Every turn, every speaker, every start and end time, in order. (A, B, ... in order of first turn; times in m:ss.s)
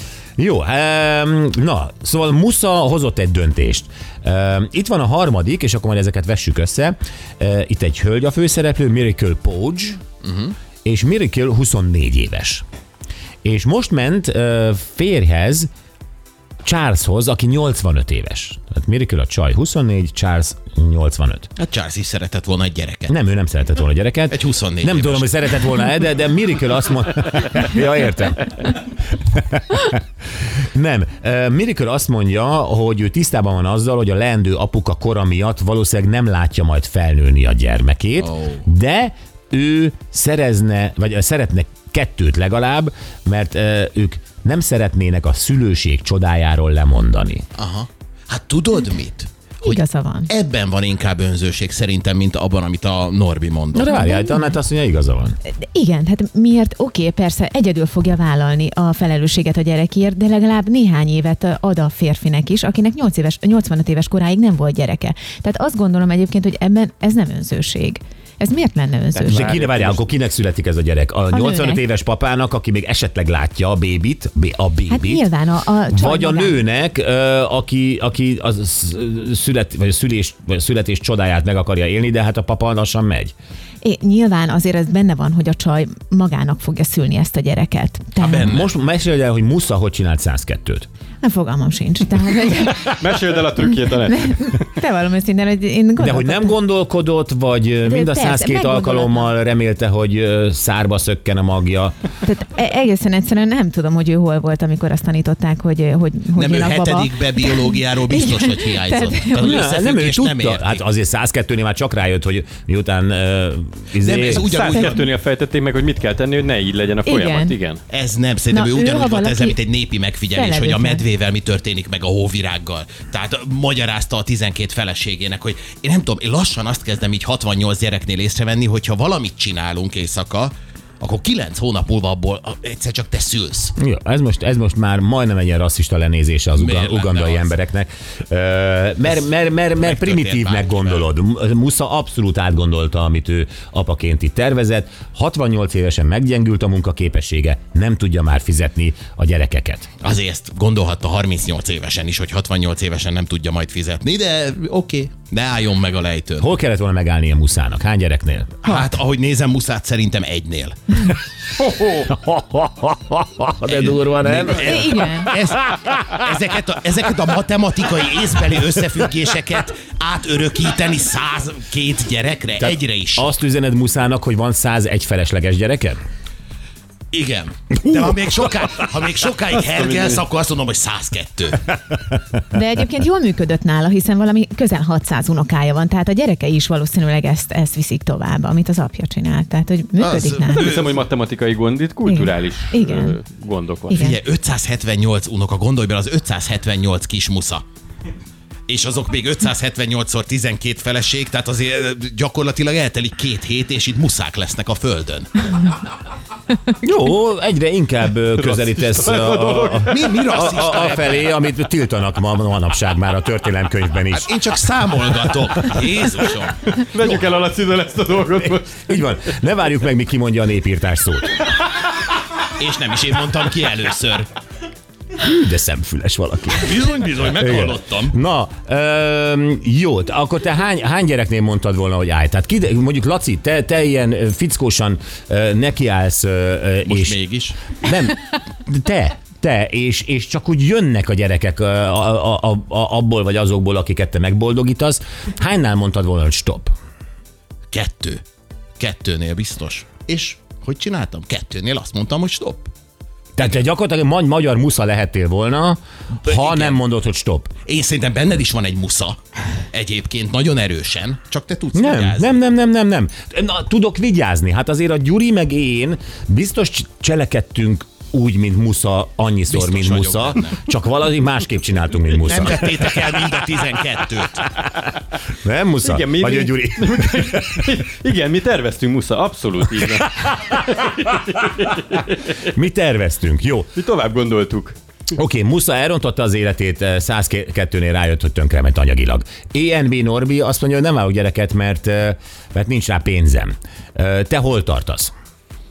0:00.4-0:10.0 A
0:10.2-0:10.6 B
0:10.8-0:12.6 A
0:13.4-0:15.7 A
0:16.6-0:21.5 A
0:21.6-0:23.1 B
0:23.1-0:30.0 A
0:24.3-0:25.3 B
0:30.7-0:47.5 A
0:38.2-0:38.6 B
0:47.6-0:53.9 B
0:49.6-0:50.3 C
0:53.7-0:55.4 A
0:53.9-0:54.5 C
0:55.5-1:09.6 C
1:09.1-1:10.1 D
1:09.3-1:15.3 A
1:11.3-1:11.8 C
1:14.9-1:16.6 C
1:15.9-1:23.3 A
1:23.8-1:28.6 C
1:28.2-1:30.9 A
1:28.2-1:28.7 B
1:31.2-1:33.0 C
1:32.9-1:34.4 D
1:34.0-1:36.5 C
1:36.0-1:42.0 A
1:37.8-1:39.3 C
1:42.2-1:49.6 C
1:46.4-1:50.8 B
1:49.4-1:54.5 A
1:54.0-1:55.0 B
1:54.4-1:57.8 D
1:54.6-1:55.0 C
1:57.1-1:57.6 C
1:57.9-2:13.7 B
1:58.5-1:59.6 C
2:00.3-2:01.1 C
2:13.8-2:29.9 A
2:16.6-2:17.5 B
2:19.8-2:21.1 B
2:30.0-2:36.5 B
2:36.4-2:38.8 A
2:38.6-2:41.0 B
2:41.6-2:42.1 D
2:42.1-2:45.9 A
2:43.7-2:53.3 B
2:44.5-2:45.3 C
2:52.6-2:56.0 A
2:57.1-3:01.7 B
2:57.8-2:58.4 A
2:59.5-3:00.2 D
3:02.5-3:10.7 C
3:10.0-3:11.0 B
3:10.5-3:14.0 D
3:12.1-3:13.2 C
3:13.9-3:14.2 C
3:13.9-3:17.6 B
3:18.7-3:25.5 B
3:26.8-3:34.3 A
3:28.4-3:29.9 D
3:29.9-3:31.4 B
3:34.1-3:37.3 B
3:36.6-3:39.0 D
3:38.9-3:41.5 A
3:42.6-3:44.3 B
3:45.2-3:57.2 A
3:46.6-3:48.2 B
3:56.9-3:57.6 B
3:57.8-4:06.7 A
4:07.7-4:08.2 B
4:08.8-4:12.7 B
4:13.4-4:17.5 A
4:16.2-4:16.8 B
4:17.7-4:19.2 B
4:19.7-4:22.4 B
4:21.7-4:33.3 A
4:29.5-4:30.6 B
4:32.2-4:34.5 B
4:35.4-4:37.7 A
4:35.8-4:42.3 D
4:40.2-4:40.4 A
4:42.4-4:43.7 A
4:43.8-4:44.8 D
4:45.2-4:55.1 A